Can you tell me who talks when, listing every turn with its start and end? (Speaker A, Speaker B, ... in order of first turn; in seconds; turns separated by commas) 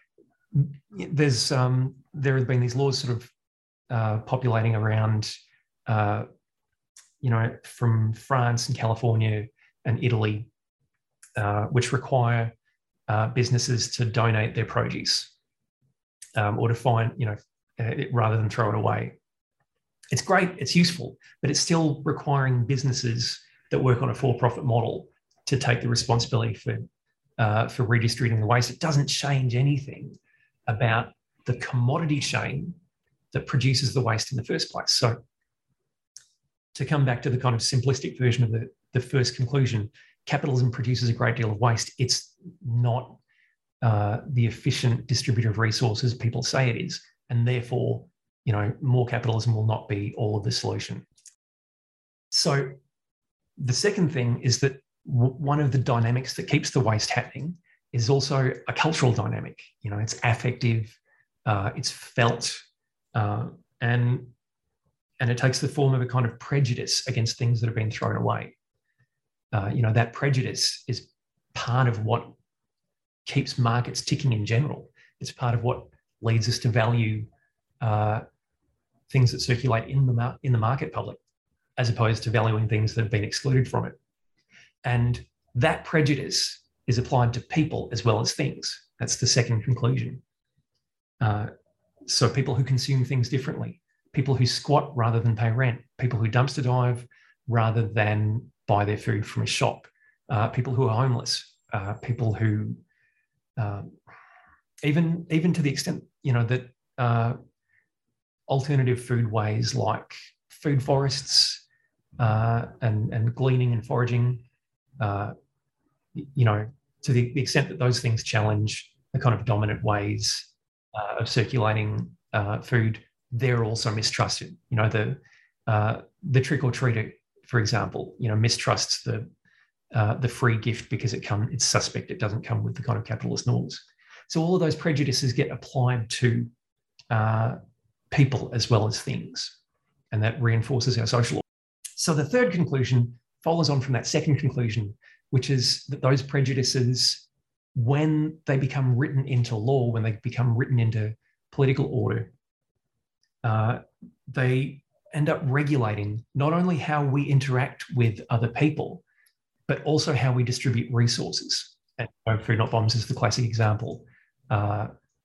Speaker A: 0.5-3.3, Speaker A: 3.9-5.3, Speaker A: 5.9-6.3, Speaker A: 7.2-10.5, Speaker A: 11.4-12.5, Speaker A: 13.1-15.3, Speaker A: 16.4-19.2, Speaker A: 20.1-26.9, Speaker A: 27.4-32.8, Speaker A: 33.3-35.2, Speaker A: 36.7-43.2, Speaker A: 43.8-51.0, Speaker A: 52.3-52.7, Speaker A: 53.6-62.6, Speaker A: 63.1-64.3, Speaker A: 65.2-68.5, Speaker A: 69.5-72.3, Speaker A: 73.3-77.3, Speaker A: 77.8-78.2, Speaker A: 79.1-81.2, Speaker A: 81.8-84.0, Speaker A: 84.8-90.2, Speaker A: 91.2-91.5, Speaker A: 92.1-102.8, Speaker A: 103.6-104.0, Speaker A: 104.8-107.4, Speaker A: 108.5-111.6, Speaker A: 112.2-114.4, Speaker A: 115.0-115.3, Speaker A: 116.2-129.3, Speaker A: 129.9-136.5, Speaker A: 137.1-137.6, Speaker A: 138.1-139.6, Speaker A: 140.1-141.4, Speaker A: 142.0-152.3, Speaker A: 153.4-159.0, Speaker A: 159.7-164.9